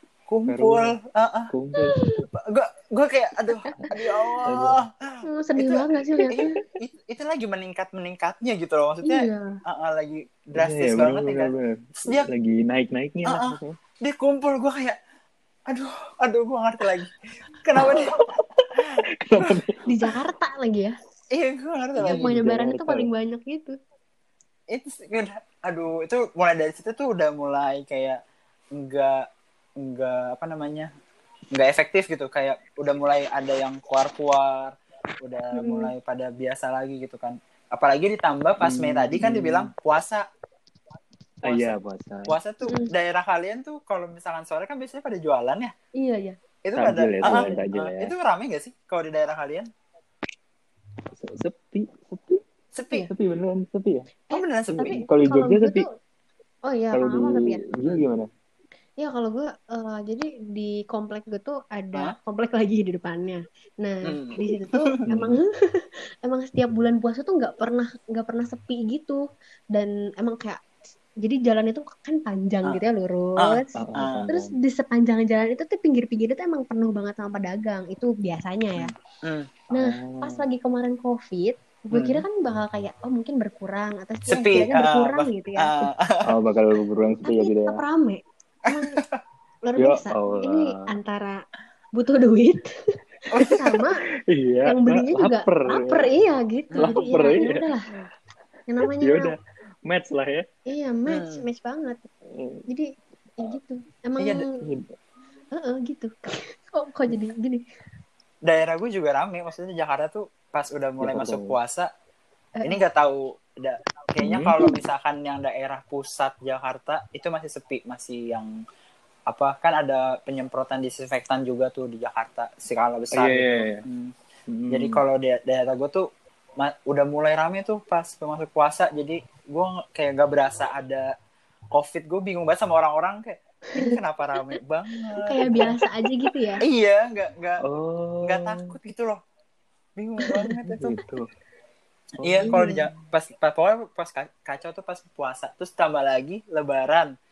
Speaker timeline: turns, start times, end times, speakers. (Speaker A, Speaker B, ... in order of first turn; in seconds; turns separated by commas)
Speaker A: 0.3-1.5, Speaker B: 0.5-0.9, Speaker B: 1.5-2.0, Speaker C: 1.7-2.3, Speaker A: 2.3-12.3, Speaker C: 3.7-4.4, Speaker B: 4.4-4.8, Speaker C: 5.2-6.6, Speaker C: 9.0-9.6, Speaker B: 10.5-13.8, Speaker A: 13.2-15.0, Speaker A: 15.7-18.2, Speaker B: 17.8-20.1, Speaker A: 18.8-19.6, Speaker C: 19.9-20.9, Speaker A: 21.3-22.3, Speaker B: 21.9-23.1, Speaker C: 22.0-23.8, Speaker A: 24.7-28.2, Speaker A: 28.7-29.2, Speaker A: 29.8-30.9, Speaker A: 31.5-40.2, Speaker C: 35.5-35.9, Speaker B: 38.6-39.7, Speaker B: 41.4-42.4, Speaker A: 41.5-41.7, Speaker A: 42.3-45.7, Speaker C: 42.6-42.9, Speaker C: 46.0-46.4, Speaker A: 46.6-49.7, Speaker B: 46.8-48.1, Speaker B: 51.1-52.4, Speaker A: 52.7-53.1, Speaker B: 53.1-54.1, Speaker C: 54.3-55.9, Speaker A: 54.3-55.0, Speaker B: 54.9-55.8, Speaker C: 56.7-57.6, Speaker B: 56.9-58.3, Speaker C: 59.0-69.2, Speaker A: 64.0-65.0, Speaker B: 65.1-65.4, Speaker C: 69.7-70.6, Speaker C: 71.2-78.9, Speaker A: 73.4-74.3, Speaker B: 73.7-74.6, Speaker A: 79.2-79.7, Speaker B: 79.7-80.5, Speaker C: 79.7-85.9, Speaker A: 81.9-82.2, Speaker A: 84.3-86.3, Speaker B: 86.2-87.8, Speaker C: 87.2-89.0, Speaker A: 88.7-89.2, Speaker C: 89.7-91.4, Speaker B: 89.8-90.9, Speaker C: 91.9-94.0, Speaker A: 93.3-93.6, Speaker B: 93.4-96.1, Speaker C: 94.6-97.9, Speaker A: 96.7-97.5, Speaker B: 96.8-98.1, Speaker C: 98.7-99.3, Speaker B: 98.8-100.5, Speaker C: 100.7-102.0, Speaker A: 101.1-101.4, Speaker B: 102.2-102.6, Speaker C: 102.7-104.6, Speaker A: 104.2-104.5, Speaker B: 104.6-104.9, Speaker C: 105.5-107.6, Speaker A: 108.4-111.9, Speaker B: 111.0-111.6, Speaker A: 112.6-118.5, Speaker B: 114.2-114.7, Speaker A: 119.3-124.1, Speaker B: 123.1-123.8, Speaker B: 124.5-125.0, Speaker A: 124.7-131.1, Speaker A: 131.7-135.8, Speaker C: 133.7-134.6, Speaker C: 135.2-136.6, Speaker A: 136.6-137.6, Speaker B: 137.6-138.7, Speaker A: 138.2-139.2, Speaker A: 140.0-140.9, Speaker B: 140.4-141.3, Speaker B: 142.2-142.9, Speaker A: 142.2-147.1, Speaker C: 142.4-142.7